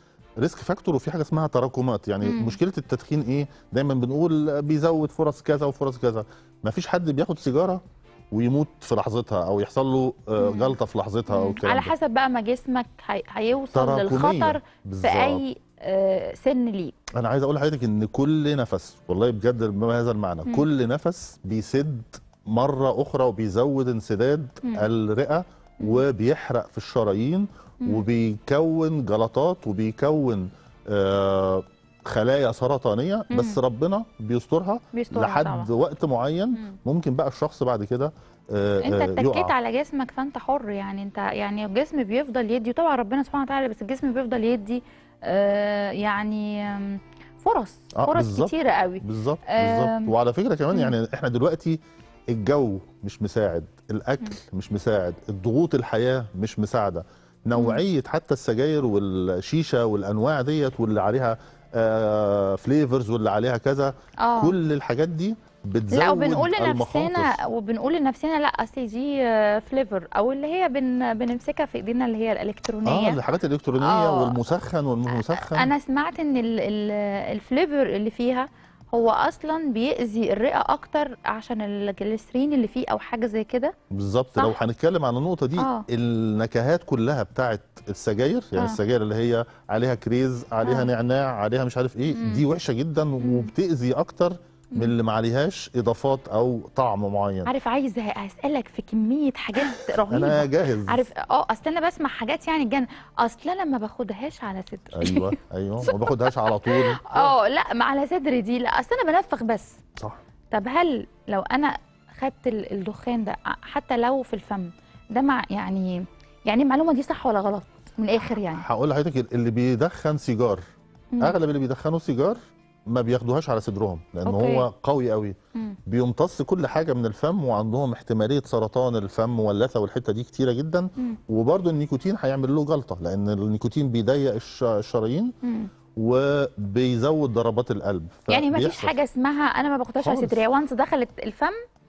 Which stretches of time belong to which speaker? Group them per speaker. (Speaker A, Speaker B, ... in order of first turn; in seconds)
Speaker A: 0.4-7.8, 8.3-11.9, 13.7-15.4, 17.2-39.5, 48.0-51.8, 52.3-67.4, 72.8-75.7, 83.9-97.5, 99.6-101.0, 104.9-107.3, 118.4-120.6, 121.2-125.4, 125.9-135.3, 136.0-139.0, 140.0-140.4
Speaker B: 2.2-2.5, 10.4-10.8, 11.3-17.0, 24.6-24.9, 33.3-33.6, 34.9-35.7, 38.8-50.1, 57.5-57.8, 64.2-64.5, 65.9-73.2, 73.8-74.4, 75.1-83.7, 85.6-85.8, 90.6-90.9, 92.1-92.4, 93.2-93.5, 97.5-109.8, 110.5-118.7, 124.3-124.7, 135.4-135.7, 138.3-141.6